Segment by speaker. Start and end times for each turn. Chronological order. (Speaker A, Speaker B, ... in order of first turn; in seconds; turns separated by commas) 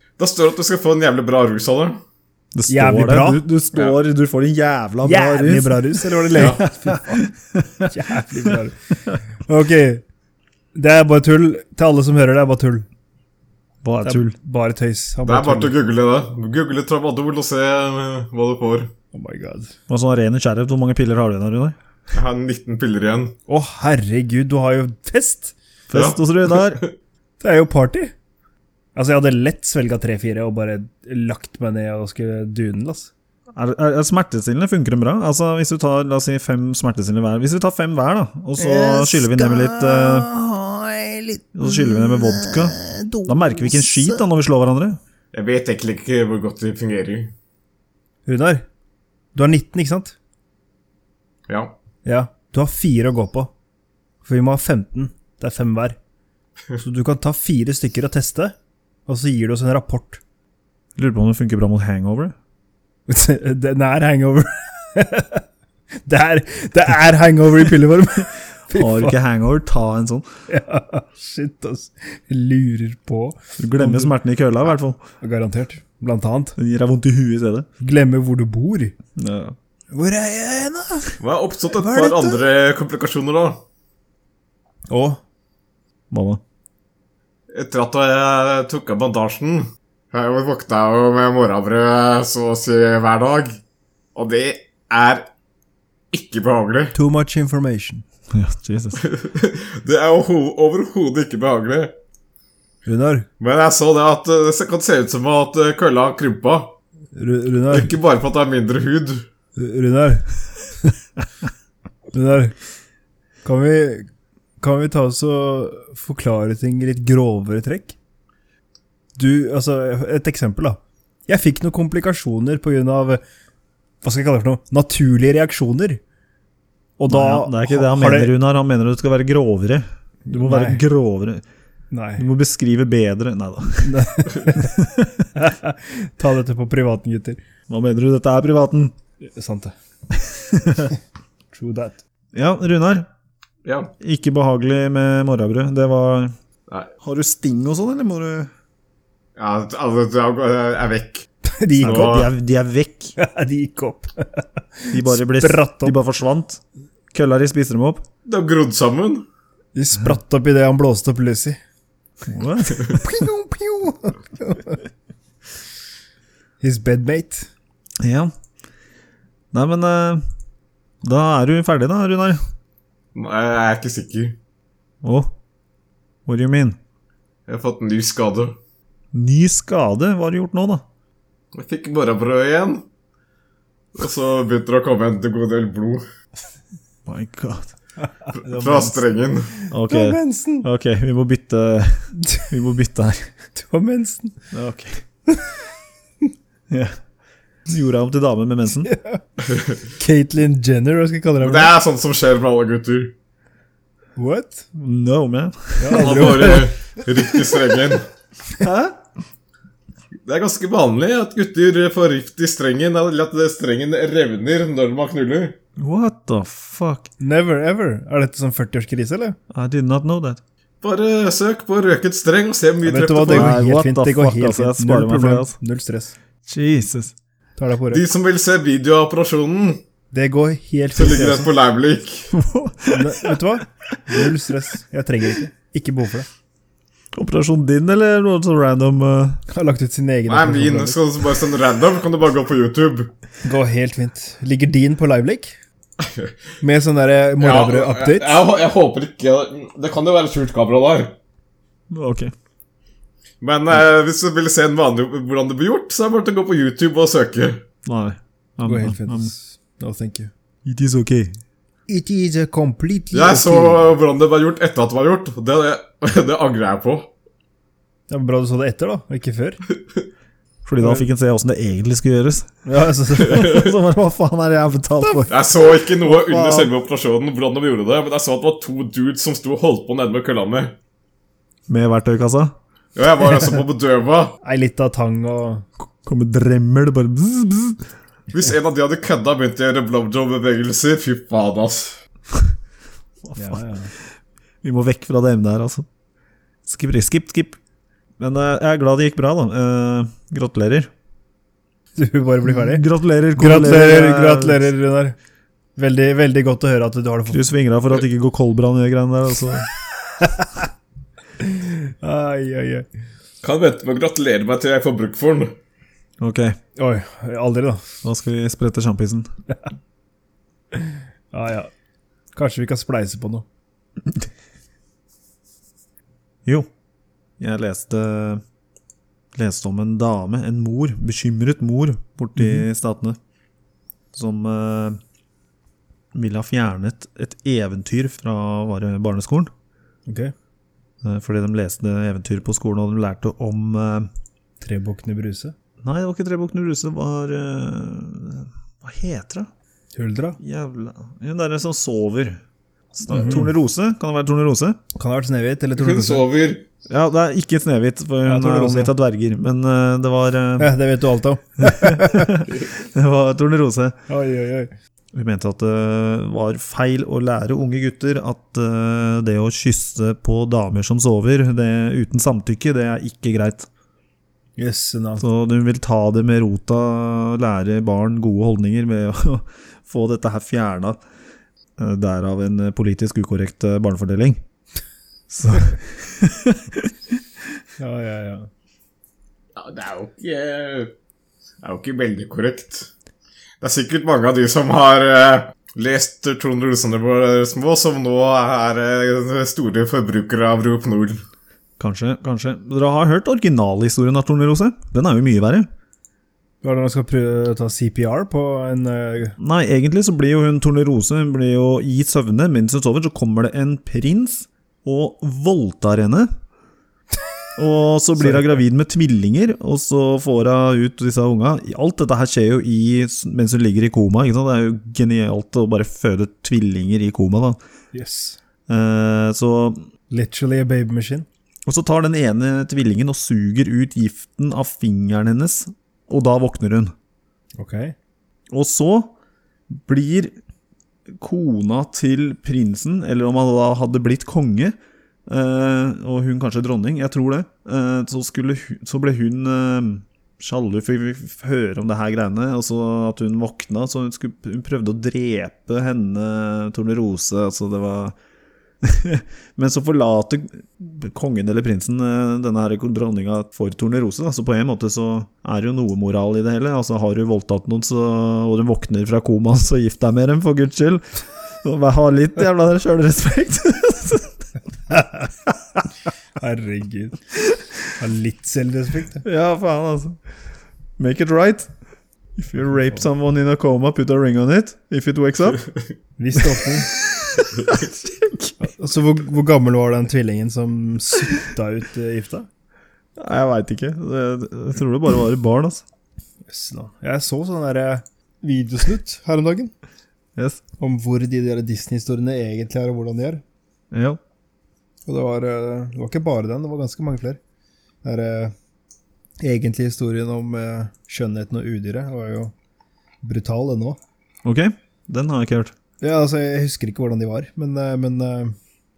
Speaker A: 0.2-2.0, Speaker B: 2.5-7.9, Speaker C: 2.7-3.4, Speaker C: 5.0-7.3, Speaker A: 6.3-6.6, Speaker C: 7.8-8.8, Speaker C: 9.3-10.0, Speaker C: 10.8-12.9, Speaker B: 13.8-14.3, Speaker C: 14.0-15.7, Speaker A: 15.3-18.9, Speaker C: 19.1-19.7, Speaker B: 19.9-21.8, Speaker A: 22.1-23.4, Speaker C: 23.5-25.6, Speaker B: 25.9-26.8, Speaker A: 25.9-26.9, Speaker C: 27.4-28.1, Speaker C: 28.9-33.1, Speaker B: 33.5-40.3, Speaker C: 38.6-44.2, Speaker B: 41.5-45.0, Speaker A: 45.3-47.3, Speaker C: 48.3-48.7, Speaker C: 49.4-50.2, Speaker A: 51.5-51.8, Speaker C: 52.0-53.5, Speaker C: 54.2-56.0, Speaker C: 56.8-58.5, Speaker C: 59.1-60.2, Speaker B: 61.0-62.4, Speaker C: 63.1-65.5, Speaker C: 66.0-69.2, Speaker B: 68.7-70.3, Speaker C: 70.5-74.2, Speaker B: 73.6-75.0, Speaker C: 75.2-76.6, Speaker B: 76.6-77.7, Speaker C: 77.8-78.9, Speaker B: 79.2-79.6, Speaker C: 79.9-81.2, Speaker A: 81.2-83.6, Speaker C: 81.8-82.4, Speaker C: 84.9-85.2, Speaker B: 86.1-86.4, Speaker A: 87.5-93.6, Speaker A: 94.2-95.3, Speaker A: 96.1-96.9, Speaker C: 96.9-98.0, Speaker B: 98.3-99.0, Speaker A: 99.0-102.0, Speaker C: 102.9-103.3, Speaker A: 103.4-106.8, Speaker C: 107.2-107.9, Speaker A: 107.7-109.2, Speaker C: 109.6-110.3, Speaker C: 112.1-112.5, Speaker C: 113.4-114.1, Speaker C: 114.6-118.0, Speaker C: 119.2-123.2, Speaker C: 124.0-126.0, Speaker C: 127.0-128.3, Speaker B: 127.1-131.4, Speaker C: 130.3-130.8, Speaker C: 131.9-132.3, Speaker B: 132.2-135.3, Speaker C: 133.8-134.8, Speaker C: 135.3-137.4, Speaker B: 137.7-138.9, Speaker C: 139.2-139.7, Speaker C: 140.7-141.0, Speaker C: 141.5-142.0, Speaker B: 142.3-143.1, Speaker A: 143.7-143.9, Speaker B: 144.0-146.3, Speaker B: 147.0-148.5, Speaker A: 149.4-152.3, Speaker C: 151.4-152.2, Speaker B: 151.8-153.2, Speaker C: 153.2-156.0, Speaker B: 154.9-156.6, Speaker B: 157.1-158.0, Speaker A: 158.3-159.3, Speaker C: 159.8-161.6, Speaker B: 162.2-163.1, Speaker C: 162.9-164.8, Speaker C: 166.6-167.5, Speaker B: 168.0-168.3, Speaker B: 169.5-170.2, Speaker B: 171.0-172.4, Speaker A: 173.2-174.4, Speaker B: 175.0-175.3, Speaker B: 176.3-176.8, Speaker A: 177.5-178.6, Speaker B: 179.1-180.8, Speaker A: 181.5-182.8, Speaker A: 184.0-186.0, Speaker B: 187.1-187.7, Speaker C: 188.3-189.0, Speaker A: 188.4-189.6, Speaker B: 189.7-193.3, Speaker C: 189.9-190.7, Speaker C: 193.6-194.4, Speaker B: 194.5-195.0, Speaker B: 196.7-197.0, Speaker B: 197.7-198.9, Speaker C: 198.8-199.2, Speaker C: 199.9-201.7, Speaker A: 201.4-203.1, Speaker C: 204.2-204.7, Speaker B: 204.7-206.5, Speaker C: 205.8-207.6, Speaker A: 205.9-208.1, Speaker B: 208.6-208.9, Speaker A: 210.3-215.6, Speaker B: 215.8-217.1, Speaker C: 217.2-219.4, Speaker B: 219.5-220.4, Speaker A: 220.8-223.6, Speaker C: 222.8-226.2, Speaker B: 223.3-225.6, Speaker B: 226.5-227.1, Speaker C: 227.6-228.0, Speaker A: 227.9-229.8, Speaker C: 230.1-231.5, Speaker A: 231.0-232.3, Speaker B: 232.3-233.4, Speaker C: 232.9-236.3, Speaker B: 237.1-239.4, Speaker C: 239.5-241.0, Speaker A: 240.3-243.1, Speaker C: 243.4-245.6, Speaker A: 246.0-246.3, Speaker C: 246.6-248.4, Speaker A: 247.4-251.2, Speaker B: 251.9-252.3, Speaker A: 253.4-257.6, Speaker B: 257.9-259.3, Speaker C: 258.6-260.3, Speaker B: 260.6-261.4, Speaker C: 261.9-263.9, Speaker A: 263.1-267.1, Speaker C: 268.1-269.6, Speaker B: 270.6-272.5, Speaker C: 272.6-273.7, Speaker B: 273.1-275.3, Speaker A: 273.2-273.7, Speaker A: 275.3-280.8, Speaker B: 276.0-276.7, Speaker B: 281.7-282.6, Speaker A: 283.0-284.4, Speaker C: 284.4-285.7, Speaker B: 286.0-287.8, Speaker A: 288.3-292.0, Speaker B: 293.2-293.6, Speaker C: 293.4-293.9, Speaker B: 294.6-295.9, Speaker B: 296.7-297.6, Speaker B: 298.2-300.9, Speaker C: 301.9-305.2, Speaker B: 302.5-304.6, Speaker C: 305.8-307.4, Speaker B: 307.3-309.7, Speaker C: 310.2-310.7, Speaker C: 311.4-312.9, Speaker A: 313.4-315.5, Speaker B: 316.2-316.6, Speaker C: 316.8-317.8, Speaker B: 318.0-319.3, Speaker C: 320.7-321.7, Speaker C: 322.4-323.4, Speaker B: 327.4-328.4, Speaker B: 329.3-333.2, Speaker B: 334.1-335.0, Speaker B: 336.1-339.5, Speaker C: 340.1-340.3, Speaker B: 341.0-344.1, Speaker C: 344.6-345.6, Speaker B: 345.8-349.5, Speaker C: 349.9-350.4, Speaker B: 350.4-352.4, Speaker B: 352.9-354.8, Speaker C: 353.1-353.5, Speaker C: 354.9-356.2, Speaker A: 355.8-356.6, Speaker B: 356.9-360.7, Speaker C: 358.2-358.9, Speaker C: 360.6-362.4, Speaker B: 361.6-364.0, Speaker C: 364.1-364.7, Speaker B: 365.1-373.7, Speaker C: 374.6-375.2, Speaker B: 375.2-381.0, Speaker B: 381.8-384.4, Speaker B: 385.3-387.2, Speaker C: 387.8-388.5, Speaker A: 389.6-390.9, Speaker A: 391.6-392.9, Speaker A: 393.6-401.2, Speaker B: 401.8-405.7, Speaker C: 406.6-409.4, Speaker B: 409.4-416.3, Speaker B: 417.6-427.6, Speaker C: 418.2-418.6, Speaker C: 427.9-428.4, Speaker B: 428.7-429.9, Speaker C: 430.1-431.3, Speaker B: 431.7-436.9, Speaker C: 437.6-437.9, Speaker B: 438.5-439.1, Speaker B: 439.7-440.3, Speaker B: 441.1-444.8, Speaker B: 445.3-458.1, Speaker B: 458.8-474.4, Speaker C: 476.4-477.2, Speaker C: 477.9-479.2, Speaker B: 479.2-480.2, Speaker B: 481.0-481.7, Speaker B: 482.4-485.7, Speaker C: 486.2-486.9, Speaker B: 486.5-488.6, Speaker C: 488.6-492.5, Speaker B: 493.2-495.8, Speaker C: 496.5-499.7, Speaker B: 500.4-500.6, Speaker C: 500.8-503.4, Speaker B: 503.9-504.2, Speaker C: 505.1-507.4, Speaker C: 508.0-508.6, Speaker C: 509.4-512.5, Speaker C: 513.2-514.0, Speaker B: 514.5-515.7, Speaker C: 516.0-518.5